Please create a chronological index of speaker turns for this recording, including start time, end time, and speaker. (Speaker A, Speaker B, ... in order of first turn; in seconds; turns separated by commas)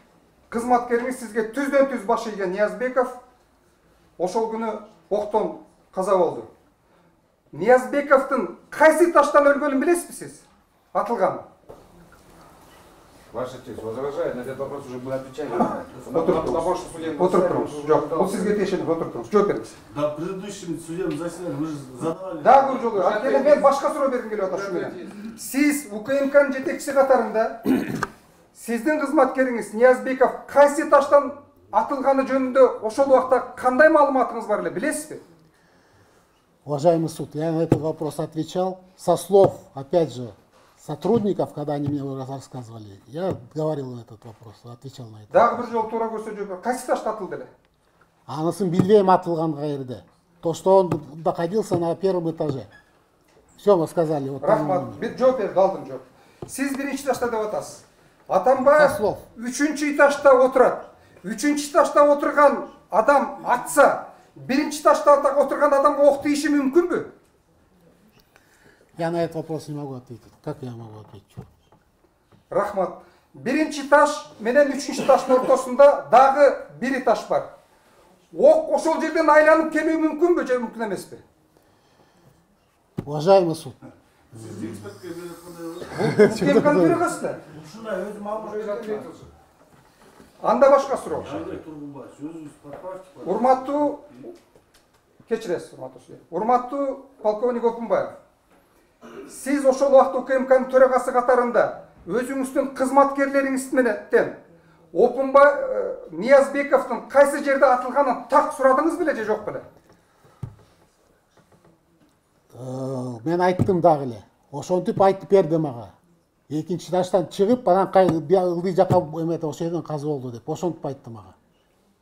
Speaker A: 0.5-3.2, Speaker A: 4.2-6.5, Speaker A: 7.5-11.5, Speaker B: 13.3-18.7, Speaker C: 15.5-16.4, Speaker A: 16.1-19.7, Speaker C: 19.9-23.4, Speaker A: 22.4-27.7, Speaker B: 23.0-23.6, Speaker B: 24.4-25.3, Speaker A: 28.5-35.2, Speaker D: 36.6-45.7, Speaker A: 45.3-47.5, Speaker D: 48.3-52.7, Speaker D: 53.6-55.2, Speaker A: 54.4-67.1, Speaker D: 58.7-59.2, Speaker D: 69.0-71.5, Speaker A: 72.5-77.5, Speaker A: 78.3-81.2, Speaker D: 83.0-83.8, Speaker C: 84.3-89.1, Speaker D: 84.4-84.6, Speaker A: 86.0-87.4, Speaker D: 86.0-87.0, Speaker A: 88.4-89.2, Speaker B: 88.6-88.9, Speaker A: 90.4-91.5, Speaker C: 91.0-94.2, Speaker A: 93.2-94.0, Speaker A: 95.3-98.2, Speaker A: 99.3-104.4, Speaker A: 104.9-109.7, Speaker D: 112.5-116.0, Speaker D: 116.5-121.3